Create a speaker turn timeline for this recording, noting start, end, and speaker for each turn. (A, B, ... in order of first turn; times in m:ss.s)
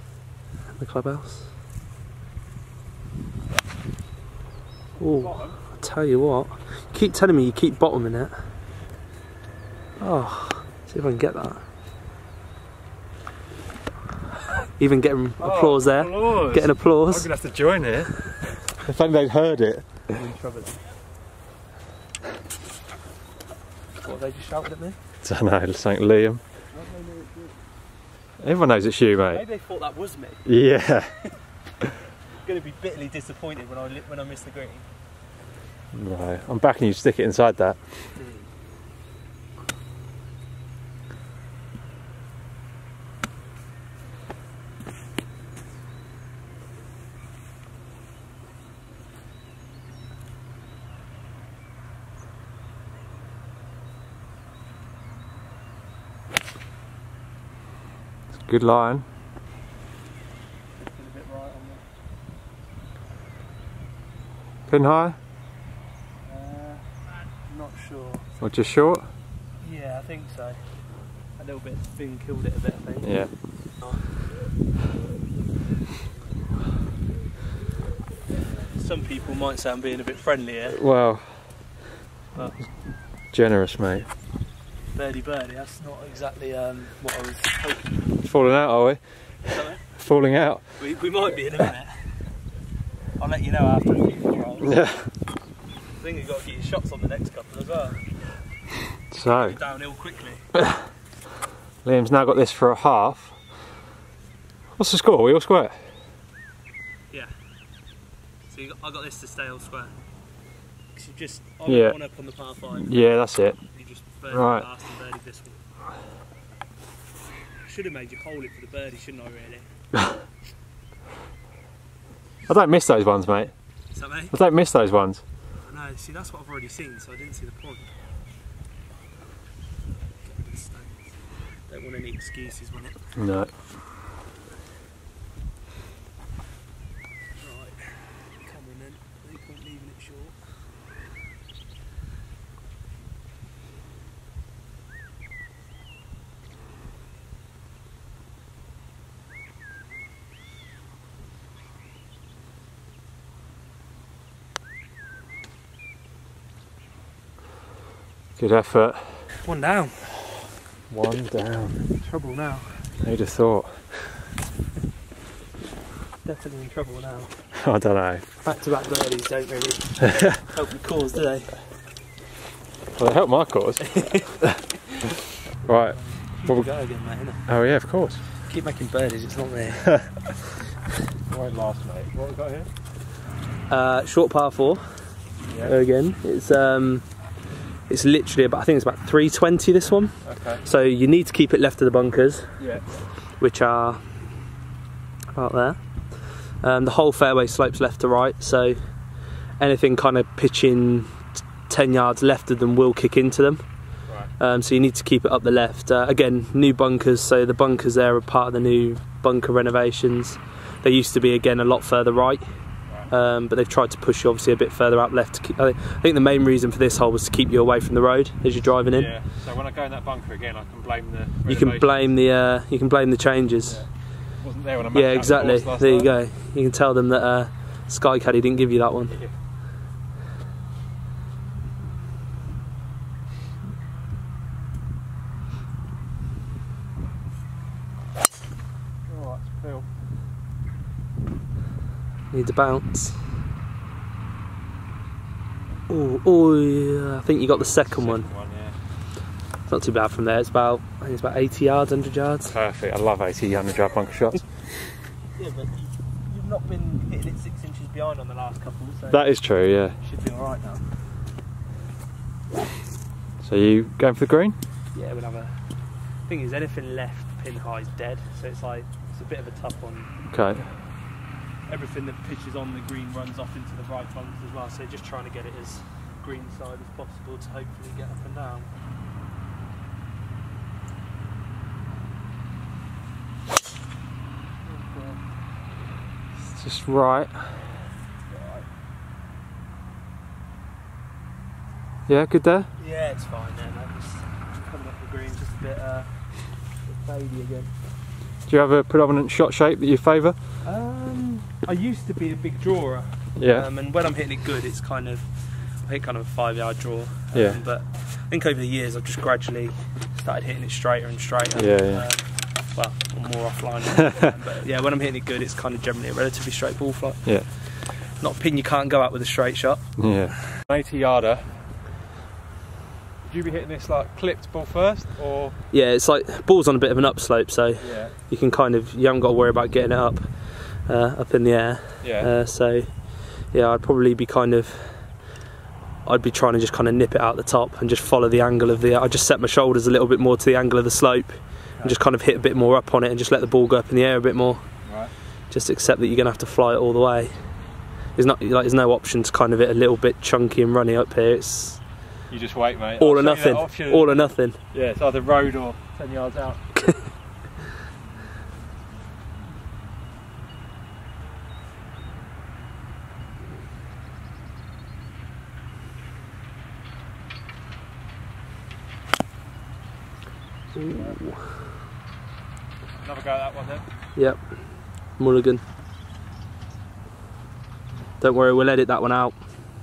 0:00.8-0:01.5 A
0:05.0-0:05.6 B
0:05.0-0:08.3 A
0:10.0-0:11.6 A
0:14.8-0:17.3 A
0:15.4-0:20.0 B
0:20.1-0:20.8 A
0:24.0-0:25.0 A
0:25.2-0:26.4 B
0:26.7-0:27.6 A
0:28.4-0:29.4 B
0:29.3-0:30.5 A
0:30.4-0:31.1 B
0:32.4-0:34.9 A
0:35.9-0:38.0 B
0:38.2-0:38.5 A
0:58.4-0:59.0 B
1:00.8-1:01.8 A
1:04.7-1:05.2 B
1:06.3-1:06.8 A
1:07.4-1:08.3 A
1:08.4-1:09.1 B
1:09.6-1:10.6 A
1:11.4-1:13.2 A
1:13.0-1:13.3 B
1:18.6-1:20.8 A
1:20.7-1:21.6 B
1:22.4-1:22.6 A
1:23.3-1:24.1 B
1:24.9-1:28.0 A
1:28.2-1:30.6 B
1:29.5-1:29.8 A
1:30.8-1:32.3 A
1:33.2-1:34.8 A
1:34.6-1:35.1 B
1:36.0-1:38.1 A
1:39.1-1:39.6 B
1:39.3-1:40.5 A
1:41.8-1:43.4 B
1:44.8-1:45.8 B
1:48.5-1:49.9 A
1:51.0-1:53.0 A
1:51.7-1:52.0 B
1:52.8-1:53.6 B
1:53.7-1:55.6 A
1:54.3-1:54.7 B
1:57.6-1:59.7 A
2:02.5-2:03.5 B
2:03.9-2:04.3 A
2:04.3-2:05.2 B
2:05.6-2:07.9 A
2:10.2-2:11.1 A
2:11.7-2:13.0 A
2:13.2-2:13.5 B
2:17.4-2:20.4 A
2:38.4-2:39.2 B
2:39.4-2:40.0 A
2:40.9-2:41.8 B
2:42.0-2:42.8 A
2:43.0-2:43.8 B
2:46.2-2:47.3 A
2:47.6-2:48.2 B
2:48.4-2:51.6 A
2:53.0-2:54.6 B
2:53.8-2:54.4 A
2:55.7-2:56.7 B
2:55.7-2:57.5 A
2:57.5-2:58.2 B
2:58.4-3:00.0 A
3:01.3-3:02.7 B
3:03.7-3:05.1 A
3:05.5-3:05.7 B
3:05.6-3:07.1 A
3:07.9-3:12.5 A
3:10.2-3:10.6 B
3:12.6-3:12.8 B
3:13.4-3:14.0 A
3:15.4-3:19.0 A
3:19.6-3:23.6 A
3:24.4-3:39.1 A
3:38.9-3:42.1 B
3:41.5-3:43.8 A
3:44.4-3:46.1 B
3:44.9-3:49.2 A
3:59.1-3:59.9 B
4:02.3-4:03.2 A
4:05.9-4:08.3 A
4:07.5-4:08.8 B
4:09.7-4:12.6 A
4:12.5-4:14.5 B
4:15.4-4:19.3 A
4:19.1-4:20.0 B
4:20.0-4:20.8 A
4:23.4-4:24.6 B
4:24.9-4:25.5 A
4:26.3-4:30.1 A
4:30.3-4:30.7 B
4:31.7-4:38.7 A
4:44.6-4:45.2 A
4:46.5-4:47.6 B
4:48.3-4:48.7 A
4:52.1-4:52.7 B
4:52.8-4:57.7 A
4:58.5-5:00.4 B
5:00.6-5:20.0 A
5:03.4-5:03.7 B
5:07.3-5:07.6 B
5:11.6-5:12.1 B
5:20.0-5:21.6 B
5:23.2-5:25.6 B
5:25.7-5:35.3 A
5:27.8-5:28.1 B
5:32.0-5:32.3 B
5:36.0-5:44.6 A
5:44.8-5:45.1 B
5:45.5-5:47.3 A
5:48.2-5:51.8 A
5:52.3-5:56.6 B
5:53.0-5:54.6 A
5:56.8-5:57.0 A
6:10.8-6:11.6 A
6:10.9-6:11.2 B
6:13.0-6:13.8 B
6:14.2-6:15.6 A
6:18.2-6:19.4 A